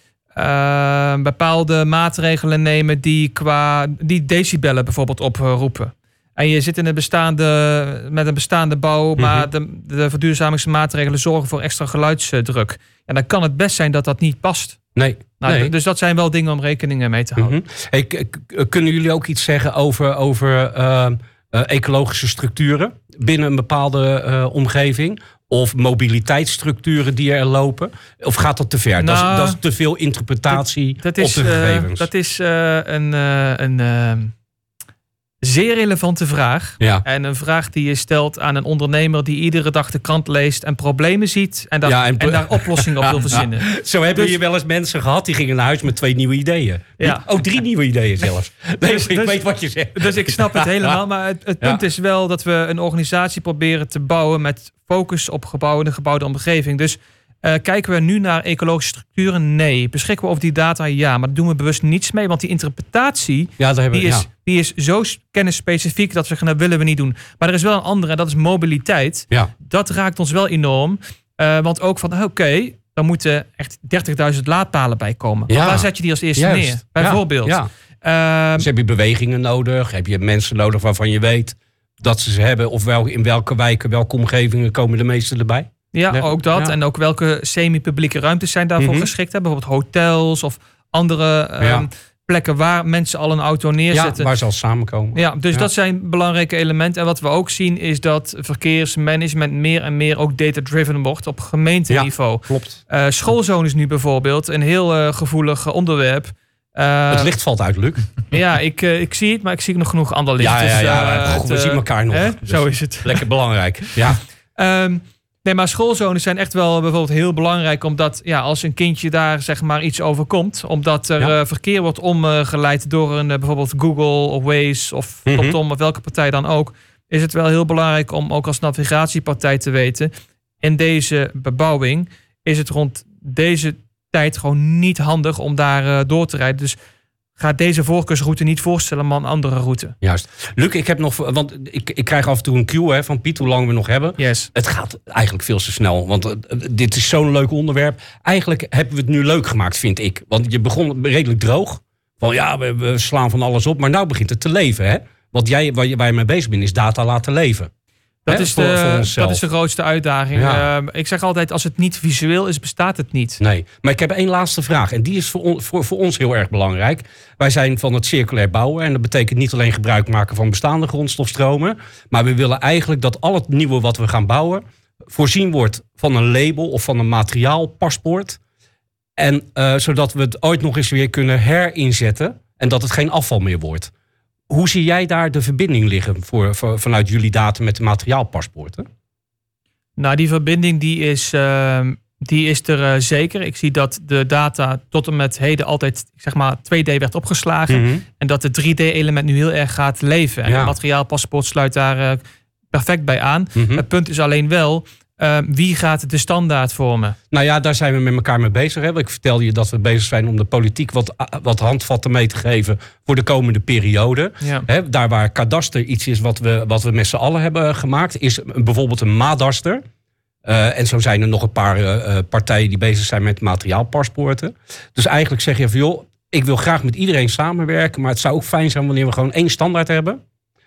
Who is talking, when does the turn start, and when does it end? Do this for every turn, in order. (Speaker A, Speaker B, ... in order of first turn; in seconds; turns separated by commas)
Speaker A: 0.4-14.8, Speaker B: 9.2-9.5, Speaker B: 15.0-15.7, Speaker A: 15.4-17.6, Speaker B: 17.4-32.1, Speaker A: 29.0-29.6, Speaker A: 30.5-34.3, Speaker A: 35.4-44.4, Speaker B: 41.9-51.0, Speaker A: 47.0-47.6, Speaker A: 48.8-49.4, Speaker A: 50.0-78.7, Speaker B: 63.6-64.3, Speaker B: 75.5-77.7, Speaker B: 78.6-86.8, Speaker A: 85.9-94.3, Speaker B: 88.8-89.1, Speaker B: 91.6-91.9, Speaker B: 93.9-95.7, Speaker A: 95.2-107.3, Speaker B: 101.9-102.8, Speaker B: 107.1-108.2, Speaker A: 108.3-113.2, Speaker B: 110.4-114.2, Speaker A: 114.6-130.1, Speaker B: 125.3-125.6, Speaker A: 130.6-136.8, Speaker A: 137.4-139.9, Speaker B: 140.0-157.7, Speaker A: 144.2-144.5, Speaker A: 158.3-163.4, Speaker B: 158.3-159.4, Speaker B: 160.3-160.7, Speaker B: 163.4-178.4, Speaker B: 179.2-183.9, Speaker B: 184.5-188.9, Speaker A: 190.0-202.2, Speaker B: 197.7-198.0, Speaker B: 200.5-200.7, Speaker A: 202.7-207.2, Speaker B: 203.6-203.8, Speaker B: 207.3-219.8, Speaker A: 214.4-214.7, Speaker B: 220.4-230.2